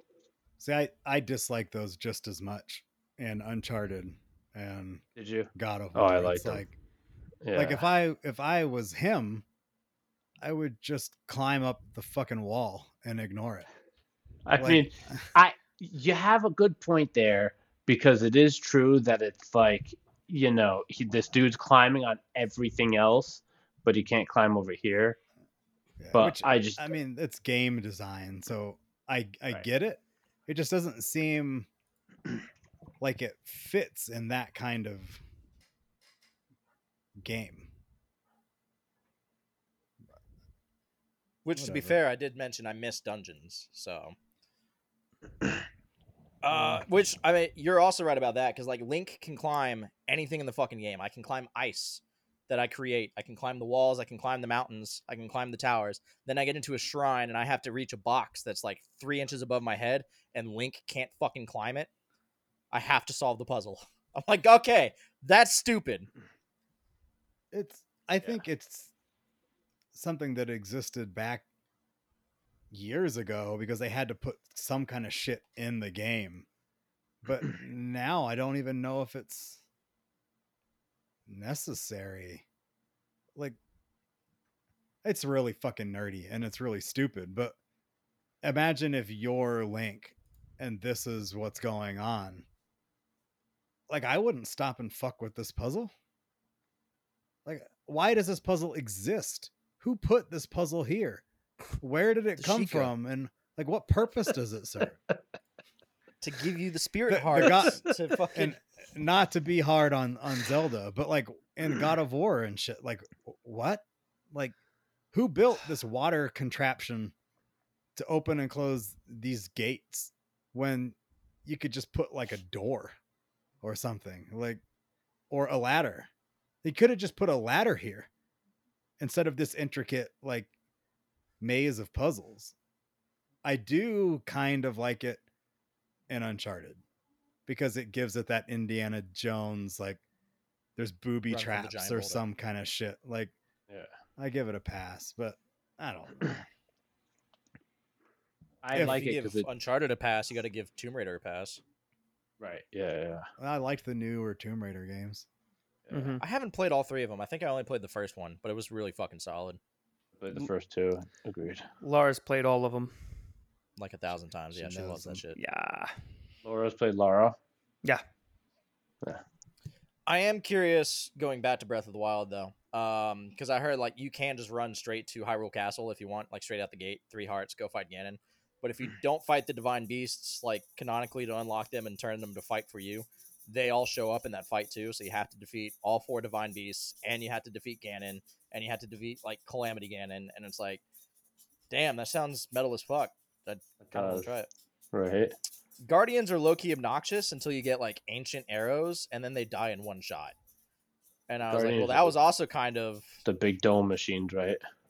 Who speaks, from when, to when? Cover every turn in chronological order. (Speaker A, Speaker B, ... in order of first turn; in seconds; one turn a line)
Speaker A: 0.6-5.0
Speaker B: 5.2-6.6
Speaker A: 5.5-6.7
Speaker B: 7.4-7.8
Speaker A: 7.5-9.4
Speaker A: 10.4-13.7
Speaker B: 14.5-25.2
Speaker A: 14.6-15.3
Speaker A: 26.0-31.7
Speaker B: 26.1-26.9
Speaker A: 33.0-35.2
Speaker A: 37.2-37.7
Speaker C: 41.4-44.1
Speaker A: 41.6-42.0
Speaker C: 46.4-61.9
Speaker A: 46.5-46.8
Speaker C: 62.7-66.1
Speaker A: 67.5-68.9
Speaker A: 69.9-71.4
Speaker A: 72.7-76.5
Speaker A: 77.2-79.6
Speaker A: 81.3-82.4
Speaker A: 85.0-87.5
Speaker A: 88.4-92.5
Speaker A: 93.9-95.9
Speaker A: 97.4-101.2
Speaker A: 101.8-105.0
Speaker C: 102.4-102.9
Speaker C: 106.2-108.6
Speaker A: 107.1-114.5
Speaker B: 107.3-107.7
Speaker A: 115.1-117.1
Speaker A: 118.0-123.0
Speaker A: 123.6-124.6
Speaker A: 125.3-126.1
Speaker A: 126.6-128.1
Speaker A: 129.0-130.5
Speaker A: 131.4-132.5
Speaker A: 133.4-135.2
Speaker A: 136.1-136.8
Speaker A: 137.5-140.0
Speaker A: 140.8-143.3
Speaker C: 141.3-142.2
Speaker A: 144.2-146.4
Speaker B: 148.6-149.5
Speaker A: 148.7-149.1
Speaker C: 148.7-151.6
Speaker B: 152.4-153.3
Speaker A: 153.4-155.2
Speaker B: 155.8-156.1
Speaker D: 155.9-156.2
Speaker C: 156.2-159.6
Speaker B: 160.2-161.7
Speaker D: 161.8-162.9
Speaker C: 163.8-165.4
Speaker A: 164.5-165.2
Speaker D: 165.3-165.9
Speaker B: 166.4-167.3
Speaker C: 170.1-190.8
Speaker C: 191.7-194.5
Speaker B: 193.8-194.3
Speaker B: 194.9-195.3
Speaker C: 195.8-200.3
Speaker C: 201.3-203.1
Speaker B: 201.4-202.1
Speaker B: 203.2-204.6